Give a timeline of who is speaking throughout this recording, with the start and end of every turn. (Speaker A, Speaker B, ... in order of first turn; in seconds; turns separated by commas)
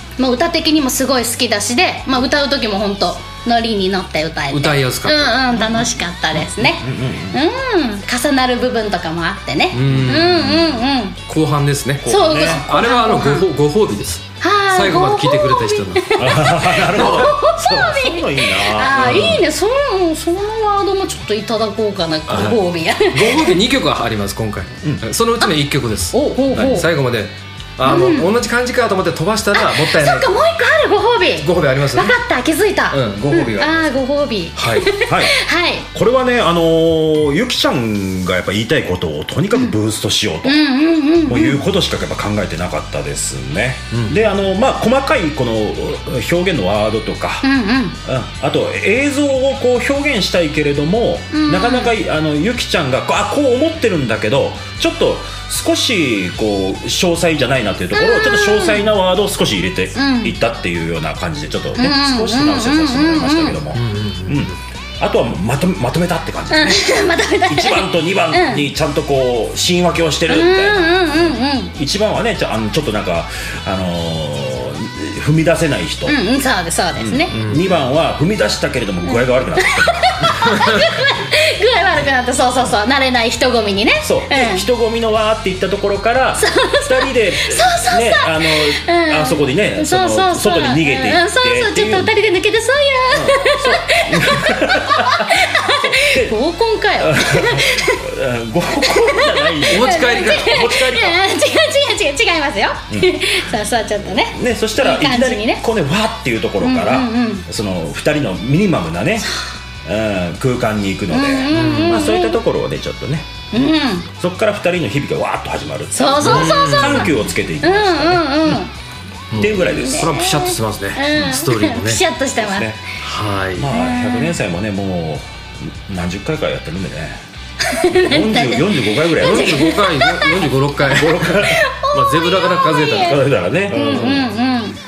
Speaker A: 0.2-11.2, Speaker B: 4.5-5.4, Speaker C: 6.6-7.4, Speaker B: 9.7-16.3, Speaker C: 12.1-12.6, Speaker A: 12.1-13.5, Speaker A: 14.4-23.6, Speaker C: 16.2-19.4, Speaker B: 18.9-19.4, Speaker B: 22.3-30.3, Speaker A: 26.1-26.9, Speaker A: 27.8-28.3, Speaker A: 29.5-35.9, Speaker B: 31.4-32.1, Speaker B: 32.9-33.9, Speaker B: 34.5-34.9, Speaker C: 35.0-35.4, Speaker C: 35.9-40.6, Speaker A: 40.4-41.6, Speaker C: 41.2-47.5, Speaker B: 43.9-44.2, Speaker A: 47.4-48.0, Speaker C: 48.0-66.9, Speaker A: 51.3-51.9, Speaker A: 57.9-58.9, Speaker A: 60.0-60.3, Speaker A: 61.8-63.6, Speaker B: 63.7-64.6, Speaker A: 66.5-68.7, Speaker C: 67.5-76.2, Speaker A: 70.3-71.7, Speaker A: 76.1-77.3, Speaker C: 77.0-80.7, Speaker B: 77.3-77.7, Speaker A: 79.1-84.6, Speaker C: 84.0-92.1, Speaker A: 86.4-98.0, Speaker C: 93.1-96.3, Speaker C: 97.0-101.2, Speaker A: 98.8-105.6, Speaker B: 99.7-100.7, Speaker C: 102.9-103.2, Speaker C: 104.0-109.3, Speaker A: 106.6-107.5, Speaker C: 109.8-113.5, Speaker A: 111.1-112.4, Speaker B: 111.5-112.1, Speaker A: 113.5-114.1, Speaker C: 114.1-118.6, Speaker A: 115.9-118.7, Speaker B: 116.2-117.2, Speaker B: 119.3-122.0, Speaker C: 119.3-120.2, Speaker A: 119.5-122.8, Speaker C: 122.4-122.8, Speaker B: 123.0-123.7, Speaker C: 123.5-127.2, Speaker A: 123.7-124.4, Speaker A: 127.6-130.5, Speaker C: 127.9-129.7, Speaker B: 129.2-134.3, Speaker C: 130.9-131.6, Speaker A: 131.4-134.8, Speaker C: 133.0-134.2